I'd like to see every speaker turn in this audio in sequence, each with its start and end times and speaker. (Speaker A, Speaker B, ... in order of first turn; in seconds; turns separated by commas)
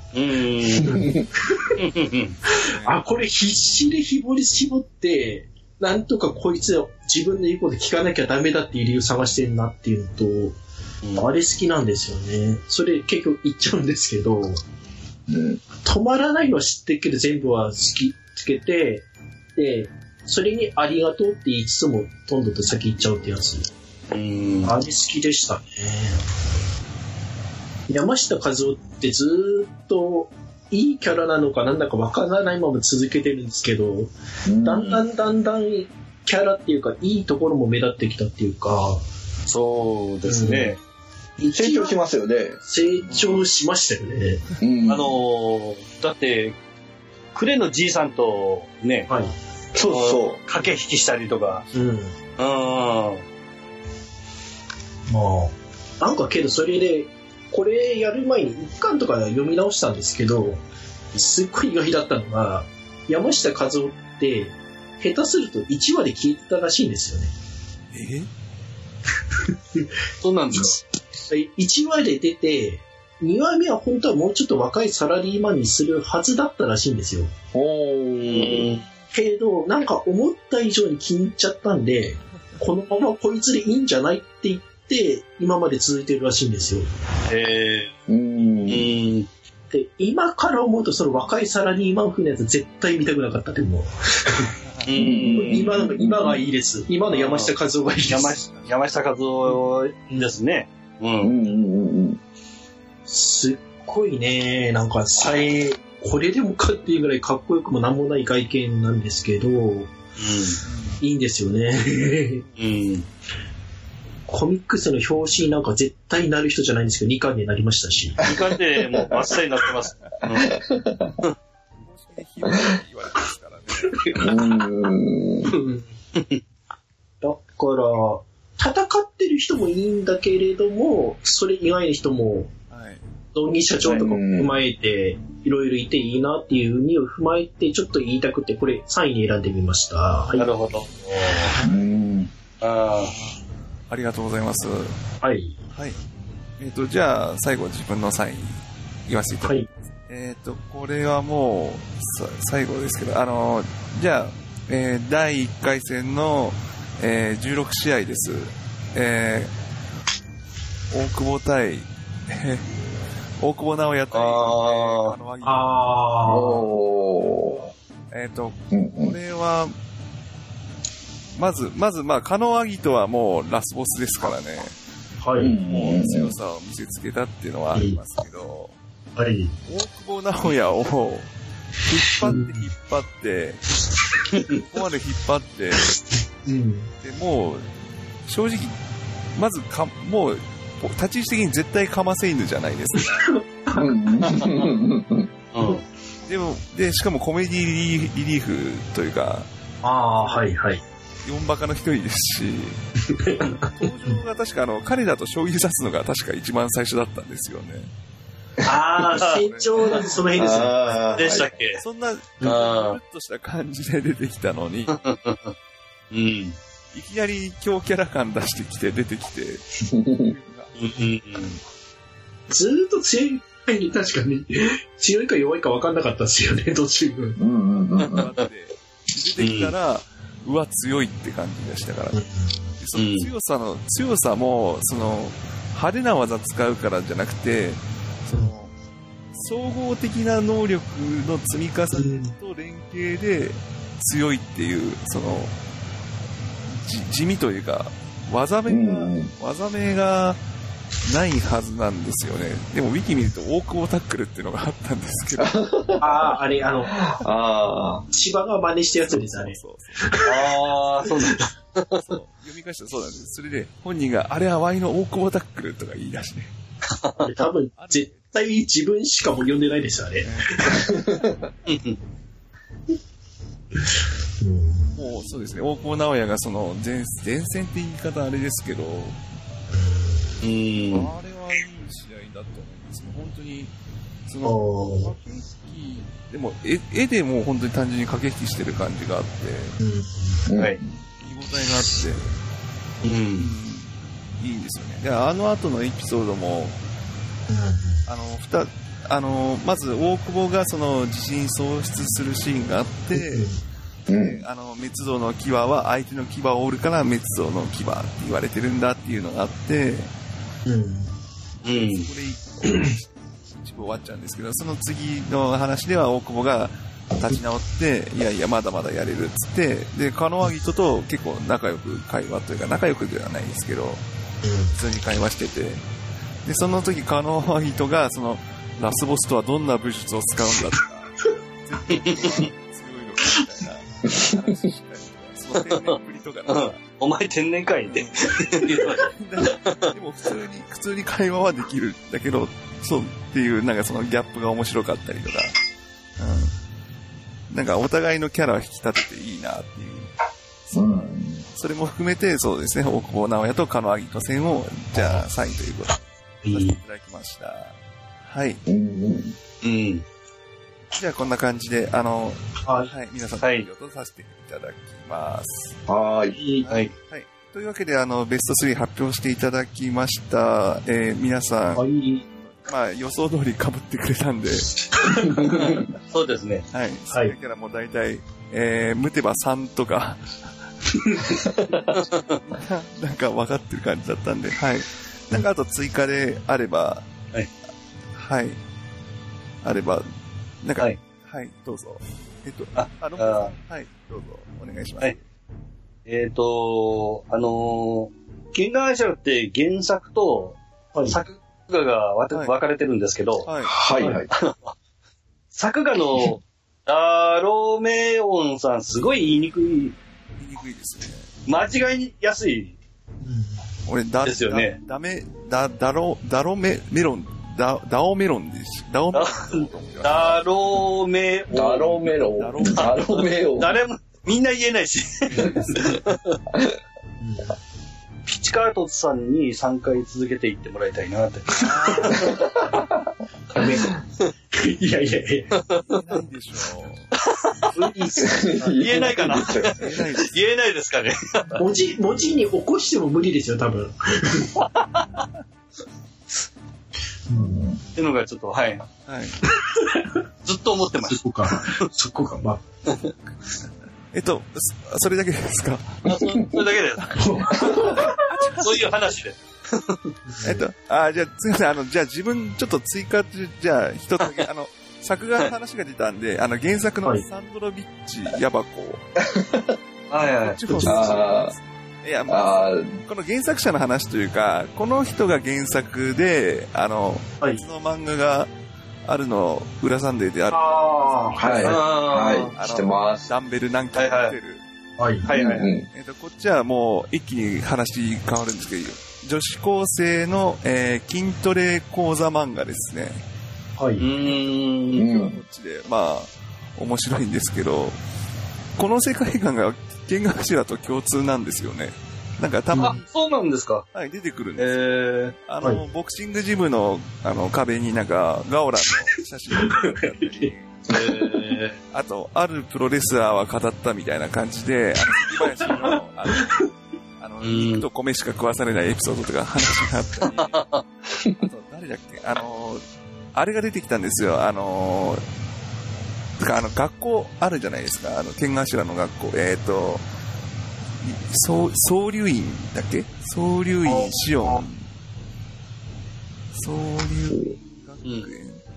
Speaker A: 0.1-1.1, Speaker B: 0.7-1.8, Speaker C: 0.8-1.3, Speaker A: 1.8-2.4, Speaker D: 2.5-3.3, Speaker B: 2.5-10.6, Speaker B: 11.2-14.6, Speaker C: 15.3-15.6, Speaker B: 15.8-23.7, Speaker A: 24.1-24.8, Speaker B: 24.6-26.2, Speaker B: 27.9-34.1, Speaker C: 34.5-35.0, Speaker B: 34.6-39.0, Speaker A: 39.5-40.8, Speaker B: 40.2-40.8, Speaker B: 41.4-42.0, Speaker C: 41.5-42.6, Speaker B: 42.6-44.5, Speaker D: 43.1-43.5, Speaker C: 44.6-45.2, Speaker A: 44.9-46.6, Speaker A: 47.4-49.1, Speaker B: 49.1-49.3, Speaker C: 49.7-50.4, Speaker A: 49.9-51.6, Speaker B: 51.7-52.2, Speaker A: 52.4-53.2, Speaker B: 55.1-60.6, Speaker B: 61.1-67.3, Speaker D: 67.9-68.3, Speaker B: 69.5-69.9, Speaker A: 70.2-70.8, Speaker B: 71.3-77.3, Speaker C: 77.5-78.7, Speaker A: 78.2-78.8, Speaker B: 79.1-86.9, Speaker A: 87.3-87.9, Speaker C: 88.1-88.9, Speaker A: 88.7-89.3, Speaker B: 89.7-94.5, Speaker D: 94.6-95.0, Speaker A: 94.8-95.7, Speaker C: 95.0-96.4, Speaker B: 95.3-98.4, Speaker A: 97.1-97.5, Speaker A: 98.1-101.3, Speaker D: 98.5-99.0, Speaker C: 101.2-102.2, Speaker B: 103.1-109.9, Speaker A: 110.2-110.6, Speaker D: 110.7-111.0, Speaker B: 111.0-112.5, Speaker A: 112.6-113.1, Speaker B: 114.3-118.2, Speaker C: 118.2-118.5, Speaker A: 118.2-120.5, Speaker C: 120.3-121.2, Speaker D: 121.8-124.2, Speaker A: 124.1-124.3, Speaker C: 124.2-125.5, Speaker B: 125.5-125.9, Speaker A: 126.2-126.4, Speaker B: 127.2-132.5, Speaker D: 132.7-133.0, Speaker B: 133.3-140.5, Speaker C: 133.9-134.6, Speaker A: 140.3-141.5, Speaker D: 141.5-141.9, Speaker C: 141.6-142.3, Speaker A: 142.6-143.1, Speaker D: 143.0-145.0, Speaker B: 145.2-145.6, Speaker D: 145.7-146.0, Speaker D: 146.6-159.5, Speaker D: 160.9-162.7, Speaker D: 163.4-165.7, Speaker A: 164.1-165.2, Speaker B: 165.4-166.7, Speaker C: 166.3-167.7, Speaker D: 168.1-169.7, Speaker C: 168.7-169.2, Speaker D: 171.4-174.8, Speaker B: 175.2-175.6, Speaker C: 175.4-176.3, Speaker D: 175.5-178.8, Speaker B: 177.7-178.0, Speaker B: 179.2-179.6, Speaker D: 179.7-181.3, Speaker D: 181.8-183.6, Speaker B: 182.2-182.7, Speaker A: 184.3-184.6, Speaker D: 184.5-186.0, Speaker B: 186.4-186.9, Speaker D: 187.0-187.7, Speaker D: 188.2-188.8, Speaker D: 189.3-193.3, Speaker B: 193.2-193.9, Speaker C: 193.7-195.3, Speaker A: 195.5-195.8, Speaker D: 196.3-199.5, Speaker B: 199.8-200.8, Speaker D: 200.2-200.5, Speaker D: 201.2-202.8, Speaker B: 203.1-204.2, Speaker D: 203.4-207.9, Speaker B: 208.6-211.1, Speaker A: 209.1-209.4, Speaker D: 209.1-215.0, Speaker C: 210.3-211.5, Speaker A: 211.2-211.8, Speaker A: 212.4-213.0, Speaker A: 214.9-215.5, Speaker A: 216.1-216.6, Speaker D: 216.9-221.6, Speaker C: 219.9-220.3, Speaker A: 220.8-221.6, Speaker B: 222.5-227.4, Speaker C: 227.4-228.3, Speaker D: 227.7-232.2, Speaker A: 229.4-229.7, Speaker B: 232.1-232.7, Speaker D: 232.8-238.7, Speaker A: 232.9-233.3, Speaker D: 239.3-245.6, Speaker B: 242.0-242.4, Speaker D: 246.7-250.4, Speaker C: 248.7-249.3, Speaker D: 251.1-255.6, Speaker C: 255.4-258.1, Speaker B: 256.0-257.1, Speaker B: 258.1-260.6, Speaker D: 259.0-260.2, Speaker A: 260.2-262.1, Speaker B: 261.2-261.5, Speaker D: 261.9-266.5, Speaker A: 266.9-267.3, Speaker B: 267.2-271.2, Speaker D: 267.8-268.3, Speaker D: 270.2-270.7, Speaker A: 271.7-272.0, Speaker B: 274.4-275.0, Speaker D: 274.9-279.2, Speaker B: 279.7-280.4, Speaker A: 280.4-281.1, Speaker D: 280.9-283.7, Speaker D: 284.3-289.8, Speaker B: 284.4-285.1, Speaker B: 289.8-290.5, Speaker C: 290.5-290.9, Speaker D: 291.2-292.3, Speaker A: 293.0-293.5, Speaker D: 293.4-296.8, Speaker B: 297.5-298.0, Speaker D: 298.1-303.5, Speaker B: 303.1-303.6, Speaker C: 304.1-304.4, Speaker D: 304.1-310.1, Speaker B: 310.7-311.1, Speaker A: 311.6-312.1, Speaker D: 311.6-313.0, Speaker D: 313.5-324.0, Speaker B: 324.4-324.8, Speaker D: 324.7-325.8, Speaker D: 326.4-336.8, Speaker A: 331.9-332.5, Speaker C: 334.1-334.3, Speaker A: 335.7-336.0, Speaker A: 336.5-339.1, Speaker D: 337.9-345.6, Speaker A: 339.6-339.9, Speaker D: 346.2-346.5, Speaker D: 347.5-350.1, Speaker D: 350.7-358.6, Speaker C: 350.7-351.4, Speaker B: 355.0-355.2, Speaker B: 356.4-356.8, Speaker C: 358.7-359.4, Speaker A: 359.6-360.1, Speaker D: 360.9-365.8, Speaker B: 362.6-362.9, Speaker A: 363.4-363.7, Speaker C: 365.9-366.4, Speaker B: 366.3-366.7, Speaker D: 366.6-371.9, Speaker B: 371.8-372.3, Speaker D: 372.4-374.8, Speaker B: 374.9-375.5, Speaker C: 375.2-375.8, Speaker A: 375.5-376.6, Speaker D: 376.7-380.4, Speaker B: 381.1-381.4, Speaker A: 381.9-382.4, Speaker D: 382.5-387.1, Speaker D: 388.1-388.6, Speaker D: 389.6-390.1, Speaker D: 390.6-395.2, Speaker A: 392.8-393.5, Speaker A: 396.1-403.5, Speaker B: 400.9-401.2, Speaker D: 403.4-403.8, Speaker C: 403.6-404.3, Speaker B: 404.0-404.2, Speaker A: 404.3-404.7, Speaker A: 405.5-410.0, Speaker D: 410.4-411.3, Speaker A: 411.5-412.8, Speaker B: 413.2-413.6, Speaker D: 413.9-420.4, Speaker A: 414.2-414.8, Speaker A: 419.1-422.2, Speaker C: 421.5-423.8, Speaker D: 422.4-423.2, Speaker A: 422.7-426.4, Speaker B: 425.4-426.0, Speaker B: 427.2-427.6, Speaker A: 428.3-432.3, Speaker D: 431.6-432.4, Speaker B: 431.7-432.0, Speaker C: 432.1-432.8, Speaker B: 433.5-434.0, Speaker B: 434.5-435.6, Speaker A: 435.6-436.2, Speaker D: 435.7-437.1, Speaker A: 437.2-437.7, Speaker B: 437.7-439.1, Speaker C: 438.2-439.9, Speaker A: 438.7-441.6, Speaker D: 439.6-440.4, Speaker B: 441.6-444.6, Speaker A: 444.6-445.2, Speaker B: 447.3-447.6, Speaker C: 447.3-447.8, Speaker A: 448.0-448.9, Speaker D: 449.1-449.4, Speaker B: 449.5-450.2, Speaker A: 450.4-451.9, Speaker B: 451.1-452.6, Speaker A: 452.9-453.1, Speaker D: 454.1-456.1, Speaker A: 456.1-457.1, Speaker C: 456.1-456.6, Speaker D: 457.0-459.0, Speaker B: 457.1-458.2, Speaker A: 457.6-457.9, Speaker A: 458.6-460.1, Speaker B: 460.3-460.6, Speaker D: 460.4-469.0, Speaker C: 469.2-469.8, Speaker A: 470.1-470.6, Speaker D: 470.4-478.5, Speaker B: 470.7-471.2, Speaker C: 470.9-471.6, Speaker C: 472.3-472.9, Speaker D: 479.1-481.9, Speaker B: 480.5-481.6, Speaker C: 481.4-483.3, Speaker A: 481.6-482.5, Speaker D: 482.5-484.6, Speaker A: 483.9-484.4, Speaker B: 485.0-485.3, Speaker A: 485.2-485.7, Speaker C: 485.3-485.9, Speaker D: 485.9-493.2, Speaker B: 493.8-494.1, Speaker A: 494.0-495.1, Speaker C: 494.9-495.4, Speaker D: 495.0-498.0, Speaker D: 498.8-503.0, Speaker B: 502.7-503.0, Speaker A: 502.8-503.9, Speaker D: 503.9-504.8, Speaker A: 504.6-505.4, Speaker D: 505.4-510.7, Speaker B: 509.7-510.5, Speaker A: 510.9-511.8, Speaker D: 511.9-516.6, Speaker D: 517.2-520.6, Speaker A: 517.4-517.9, Speaker A: 520.2-520.8, Speaker D: 521.4-525.2, Speaker D: 526.4-530.0, Speaker D: 531.0-534.9, Speaker B: 533.9-534.6, Speaker D: 536.5-538.6, Speaker A: 538.0-538.3